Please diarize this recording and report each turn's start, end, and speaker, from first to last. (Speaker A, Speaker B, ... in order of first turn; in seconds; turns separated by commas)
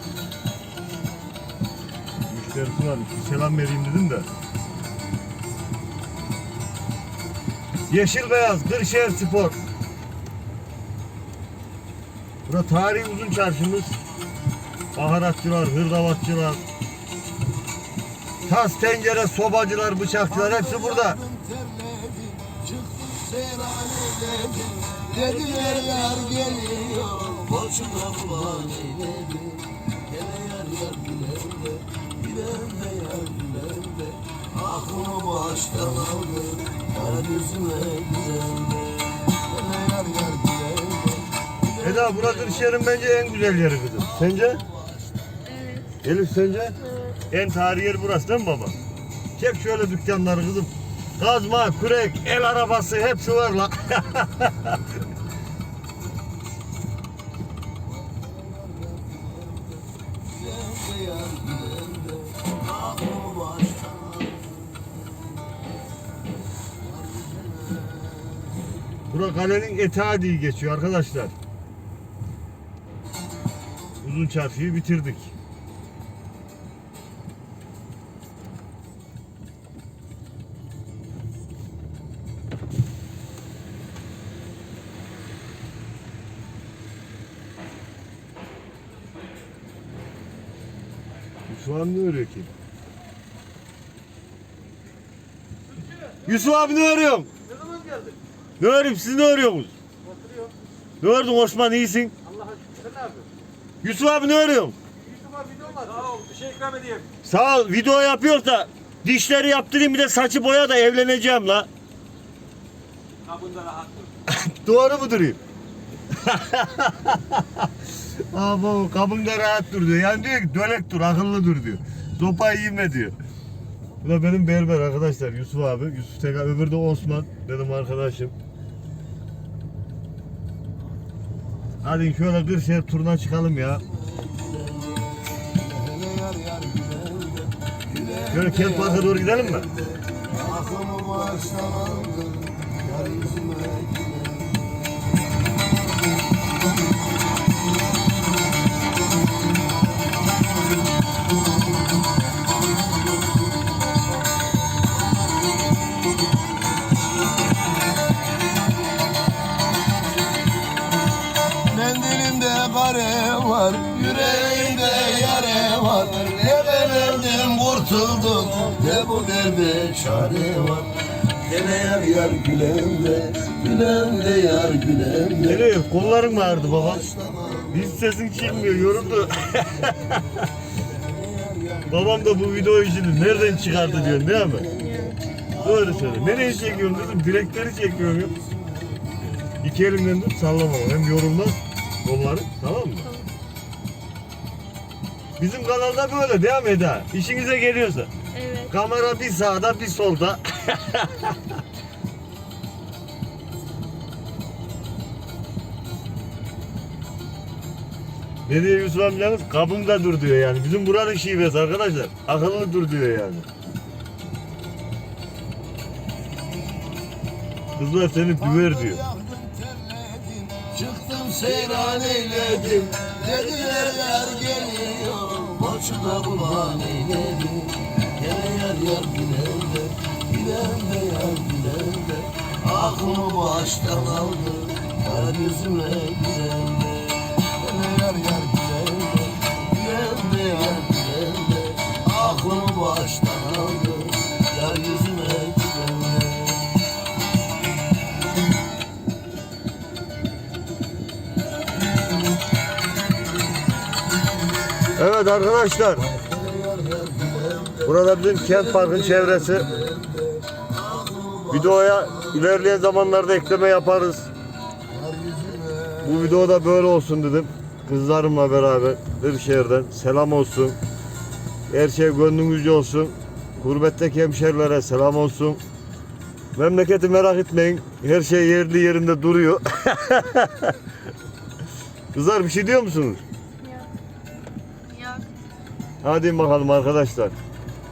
Speaker A: 2.3-4.3, Speaker A: 7.9-9.6, Speaker A: 12.5-13.9, Speaker A: 14.9-16.6, Speaker A: 18.4-21.2, Speaker B: 20.4-41.3, Speaker A: 41.8-44.6, Speaker B: 44.5-45.4, Speaker C: 45.5-46.0, Speaker A: 46.0-46.8, Speaker C: 46.8-47.1, Speaker A: 47.3-48.7, Speaker A: 49.4-54.8, Speaker B: 58.2-59.6, Speaker B: 60.3-64.8, Speaker B: 67.0-68.0, Speaker A: 69.1-71.3, Speaker A: 74.0-75.3, Speaker A: 91.5-92.5, Speaker A: 96.2-97.3, Speaker A: 98.6-99.7, Speaker A: 101.0-102.2, Speaker D: 102.7-103.2, Speaker A: 103.8-104.8, Speaker D: 105.8-107.0, Speaker A: 107.2-111.7, Speaker D: 113.3-114.0, Speaker A: 114.3-115.4, Speaker A: 116.1-123.2, Speaker A: 124.0-128.3, Speaker A: 131.8-133.8, Speaker B: 134.1-144.5, Speaker A: 138.3-139.7, Speaker B: 161.7-175.5, Speaker A: 175.4-177.1, Speaker B: 177.0-177.7, Speaker A: 177.7-180.4, Speaker B: 181.0-181.9, Speaker A: 181.9-184.7, Speaker C: 184.8-185.2, Speaker A: 185.6-188.3, Speaker A: 189.6-193.1, Speaker A: 195.4-198.1, Speaker C: 198.3-198.7, Speaker A: 198.7-201.4, Speaker A: 208.4-213.4, Speaker A: 217.8-219.0, Speaker B: 218.5-246.6, Speaker A: 254.9-256.1, Speaker B: 256.1-257.9, Speaker A: 257.8-259.7, Speaker B: 258.5-262.3, Speaker A: 261.5-264.3, Speaker B: 264.9-266.1, Speaker A: 266.0-270.8, Speaker A: 271.7-275.6, Speaker A: 276.5-280.7, Speaker A: 282.1-283.2, Speaker C: 283.6-283.9, Speaker C: 284.9-285.2, Speaker A: 286.0-287.3